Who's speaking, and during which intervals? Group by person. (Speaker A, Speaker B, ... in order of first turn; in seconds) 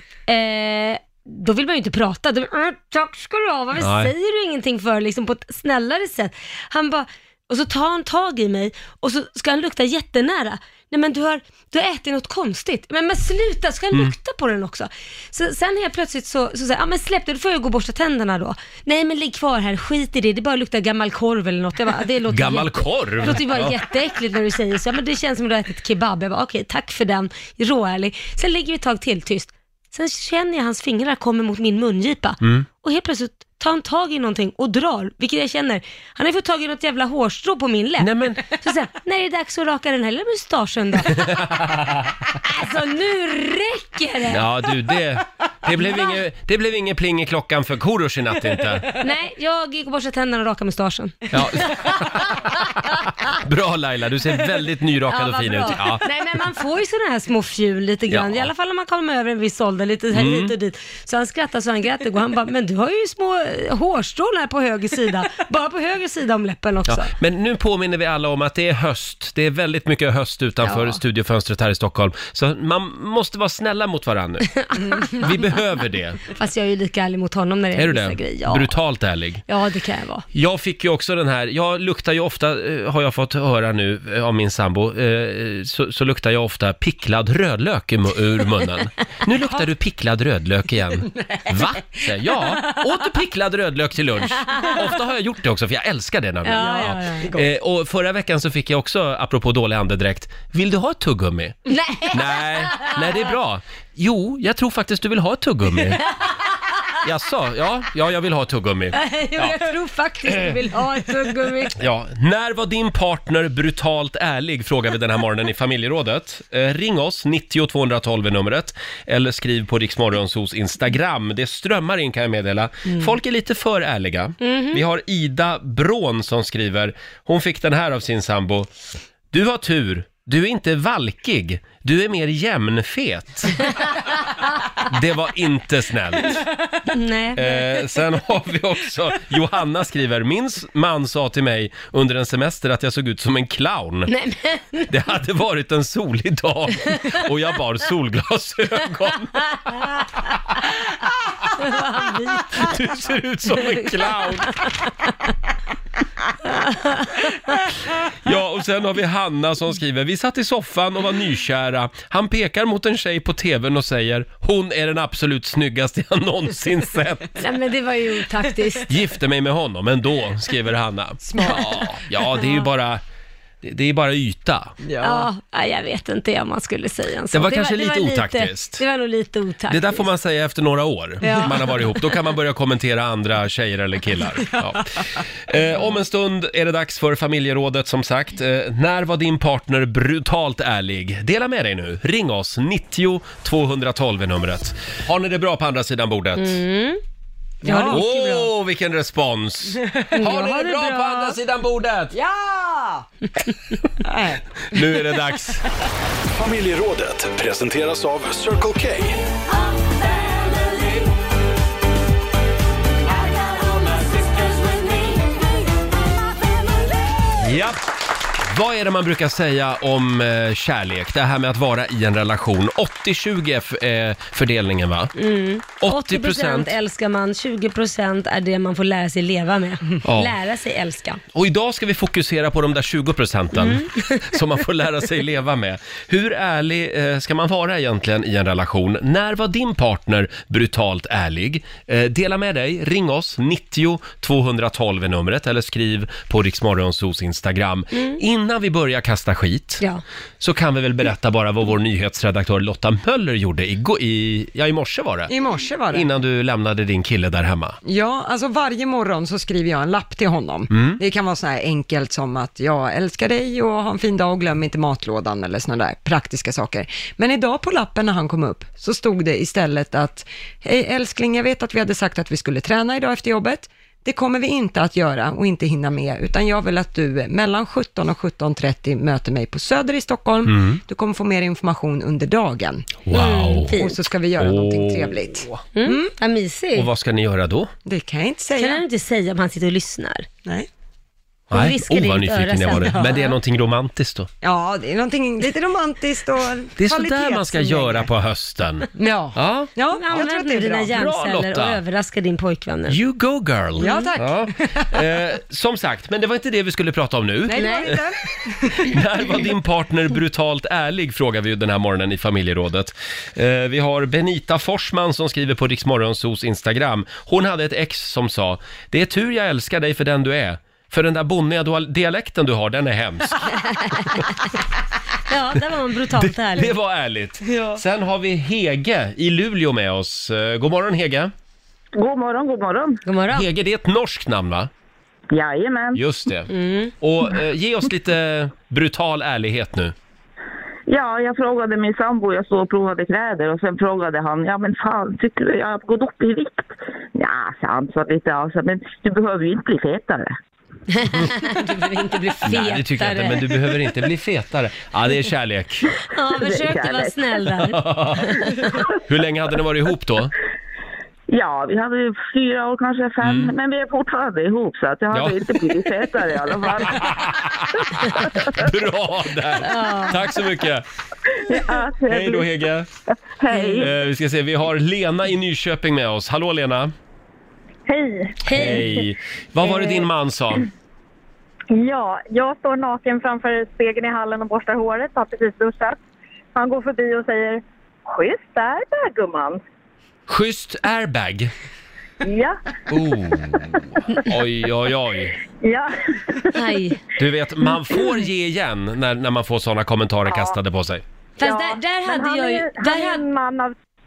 Speaker A: 0.3-41.4, 42.4-44.7, 49.0-51.8, 55.1-67.1, 70.6-71.0, 74.7-75.1, 76.2-78.7, 79.5-80.2, 96.5-97.3, 101.7-103.2, 109.0-111.8, 124.4-124.8, 136.9-137.7, 144.1-144.9, 146.9-147.2, 149.7-150.0, 151.6-152.7, 153.6-154.0, 156.5-157.3, 167.4-168.9, 175.0-180.1, 181.2-182.0, 196.4-197.0, 197.6-198.5, 200.1-201.4, 225.2-231.2, 233.6-234.4, 283.1-284.0, 285.8-286.9, 288.6-290.3, 291.5-293.3, 299.9-303.0, 303.8-304.1, 307.6-307.9, 323.7-324.2, 325.3-326.7, 333.1-333.5, 336.5-336.9, 350.9-353.5, 356.1-358.7, 369.6-370.2, 378.4-378.8, 396.5-397.0, 401.4-403.2
Speaker B: 3.8-4.1, 22.3-23.8, 32.4-32.7, 38.0-38.4, 41.1-41.5, 44.3-48.9, 51.3-56.0, 58.1-58.5, 60.1-60.5, 66.9-76.2, 77.8-79.4, 80.3-106.1, 107.0-109.6, 111.8-128.7, 129.3-133.7, 134.9-136.4, 137.3-144.1, 144.9-149.5, 152.6-154.6, 158.2-167.4, 168.9-173.0, 173.6-174.8, 177.3-178.8, 179.7-196.6, 197.9-202.2, 204.7-205.7, 217.4-217.8, 218.4-225.1, 225.8-226.8, 230.0-230.4, 231.3-249.8, 250.4-255.3, 255.9-257.8, 260.7-261.0, 280.5-280.8, 283.1-283.8, 284.4-285.6, 286.8-287.7, 291.5-294.3, 296.8-299.7, 300.9-301.8, 302.9-308.0, 308.9-324.3, 326.2-331.3, 333.3-334.7, 335.9-339.9, 352.4-355.9, 357.7-358.5, 359.1-360.3, 363.2-363.5, 365.1-365.5, 366.9-370.9, 372.1-372.9, 373.8-376.9, 378.5-380.7, 390.3-391.5, 392.9-395.4, 397.2-401.0
Speaker C: 96.6-97.5, 171.3-172.0, 174.8-175.3, 197.6-198.0, 202.2-203.1, 204.1-204.4, 255.3-256.1, 257.9-282.9, 283.8-286.1, 287.9-288.8, 292.9-293.3, 294.4-298.1, 299.0-300.9, 303.8-304.9, 307.5-309.0
Speaker D: 206.3-209.3
Speaker E: 331.9-333.0, 335.3-336.0, 340.9-350.3, 356.4-357.1, 361.3-367.2, 371.5-372.5, 373.3-373.9
Speaker F: 377.9-379.0, 381.7-386.0, 386.6-389.6, 392.2-392.6, 395.6-396.6, 401.4-403.8